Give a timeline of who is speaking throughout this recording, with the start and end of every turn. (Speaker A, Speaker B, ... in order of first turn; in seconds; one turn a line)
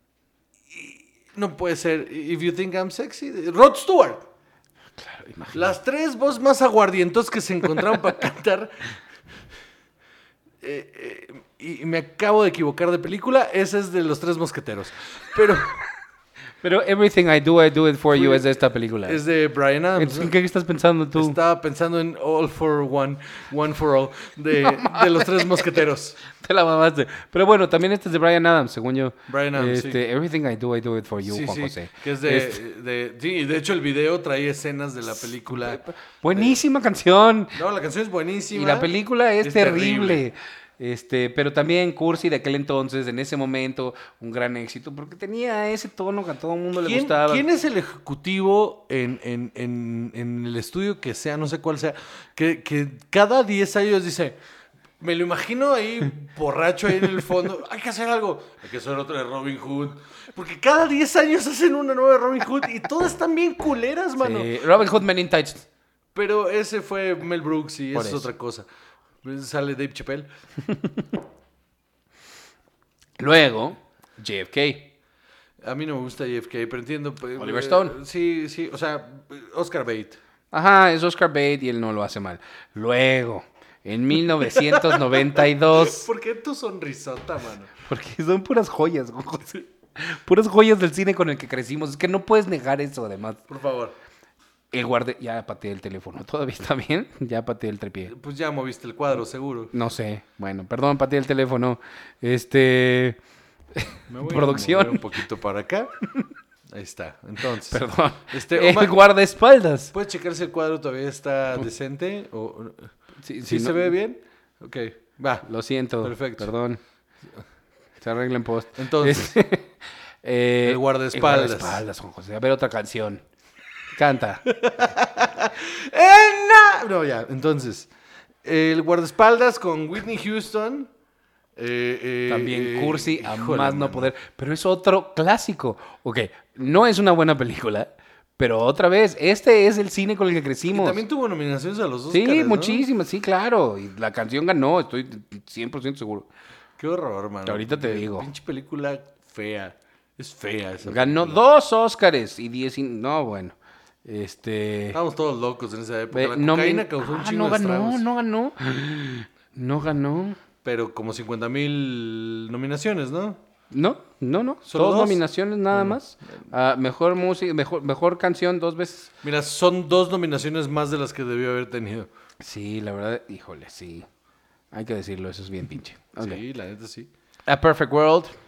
Speaker A: 0.7-4.3
Speaker B: 5.0-5.8
Speaker A: 5.5-8.9
Speaker A: 10.6-15.8
Speaker B: 16.6-19.2
Speaker A: 18.1-18.5
Speaker A: 19.1-20.3
Speaker B: 20.0-21.4
Speaker A: 21.1-26.2
Speaker B: 24.6-25.6
Speaker B: 26.3-32.6
Speaker A: 29.3-30.0
Speaker A: 31.2-35.8
Speaker B: 35.5-37.6
Speaker A: 37.5-40.2
Speaker B: 38.5-47.5
Speaker A: 46.8-54.4
Speaker A: 55.0-64.6
Speaker B: 64.2-65.7
Speaker A: 66.1-68.7
Speaker B: 67.9-68.3
Speaker A: 69.2-70.3
Speaker B: 70.7-71.1
Speaker B: 73.2-74.9
Speaker A: 75.6-80.2
Speaker B: 77.4-78.0
Speaker B: 80.5-86.1
Speaker A: 84.4-87.7
Speaker B: 87.8-93.4
Speaker A: 93.5-94.0
Speaker B: 94.7-98.1
Speaker A: 98.1-99.7
Speaker B: 99.7-103.2
Speaker B: 103.8-105.2
Speaker A: 104.1-105.9
Speaker A: 106.7-109.0
Speaker B: 107.6-109.9
Speaker A: 109.9-112.9
Speaker B: 113.2-114.0
Speaker A: 113.5-115.5
Speaker B: 115.5-116.8
Speaker A: 116.0-116.5
Speaker B: 118.0-123.2
Speaker A: 118.8-119.4
Speaker A: 120.6-121.8
Speaker B: 123.9-124.5
Speaker A: 124.5-127.9
Speaker A: 128.4-130.9
Speaker A: 131.6-134.1
Speaker B: 132.3-141.0
Speaker A: 140.7-142.9
Speaker B: 142.1-146.3
Speaker A: 146.8-151.4
Speaker B: 147.5-148.3
Speaker B: 150.8-155.0
Speaker A: 154.9-158.0
Speaker B: 156.1-160.4
Speaker A: 160.6-163.4
Speaker B: 163.7-169.1
Speaker A: 164.7-166.0
Speaker A: 169.2-172.1
Speaker B: 172.4-174.1
Speaker B: 174.7-176.4
Speaker A: 176.2-177.1
Speaker B: 177.5-178.3